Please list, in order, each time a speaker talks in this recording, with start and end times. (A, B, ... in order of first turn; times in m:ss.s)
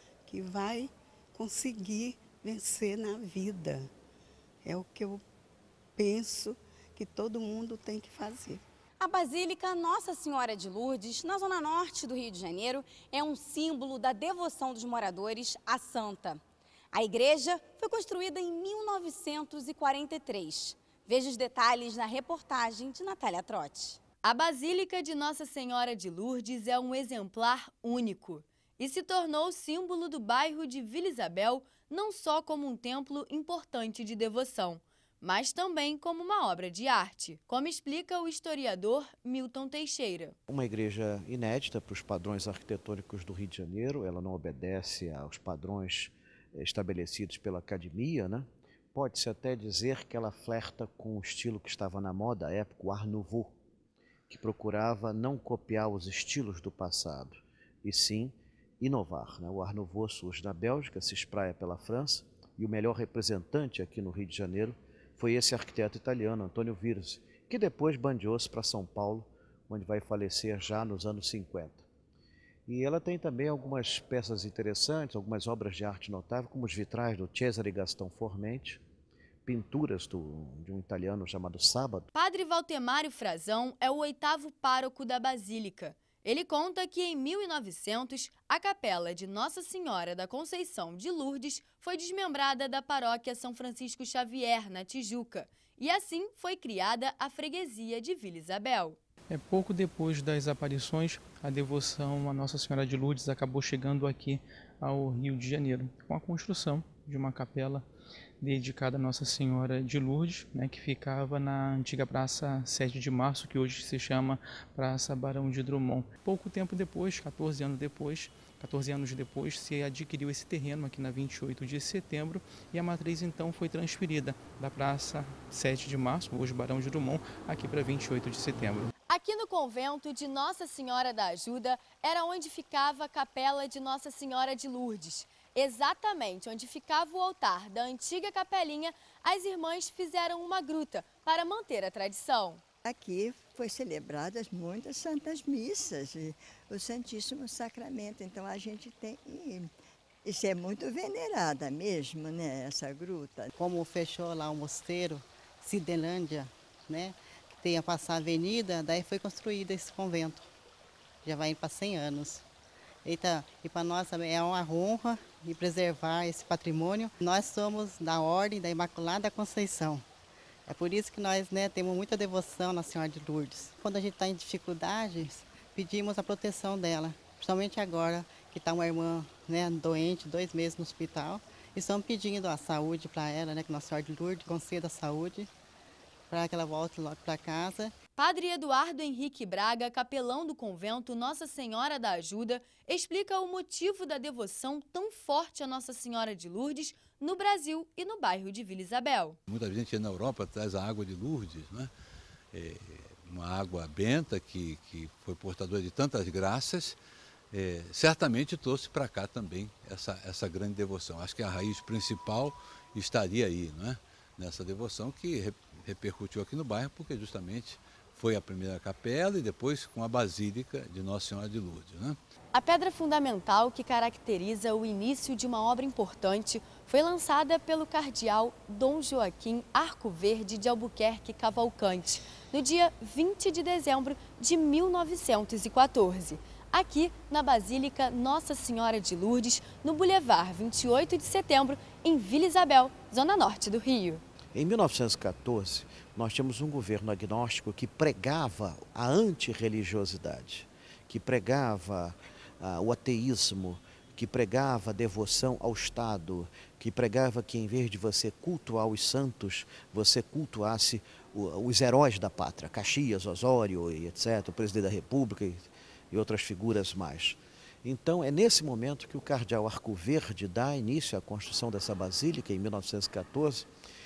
0:00.3-0:03.9 A
0:04.6-0:05.2 A
0:06.0-0:08.6 A
0:09.0-0:16.4 B
0:16.9-0:24.0 B
0:24.2-0:40.4 C
0:40.5-0:53.5 D
0:54.3-1:11.9 D
1:12.7-1:18.8 D
1:19.4-1:22.1 D
1:22.1-1:39.0 C
1:39.3-1:47.8 E
1:48.4-2:08.9 E
2:09.1-2:22.6 C
2:22.8-2:29.7 F
2:30.2-2:33.5 F
2:33.6-2:40.5 G
2:41.2-2:42.4 G
2:43.0-2:50.0 G
2:50.7-3:05.5 G
3:06.3-3:07.9 G
3:08.2-3:19.4 C
3:19.5-3:21.9 H
3:22.5-3:27.0 H
3:27.5-3:42.2 H
3:42.5-4:04.2 C
4:04.6-4:33.7 D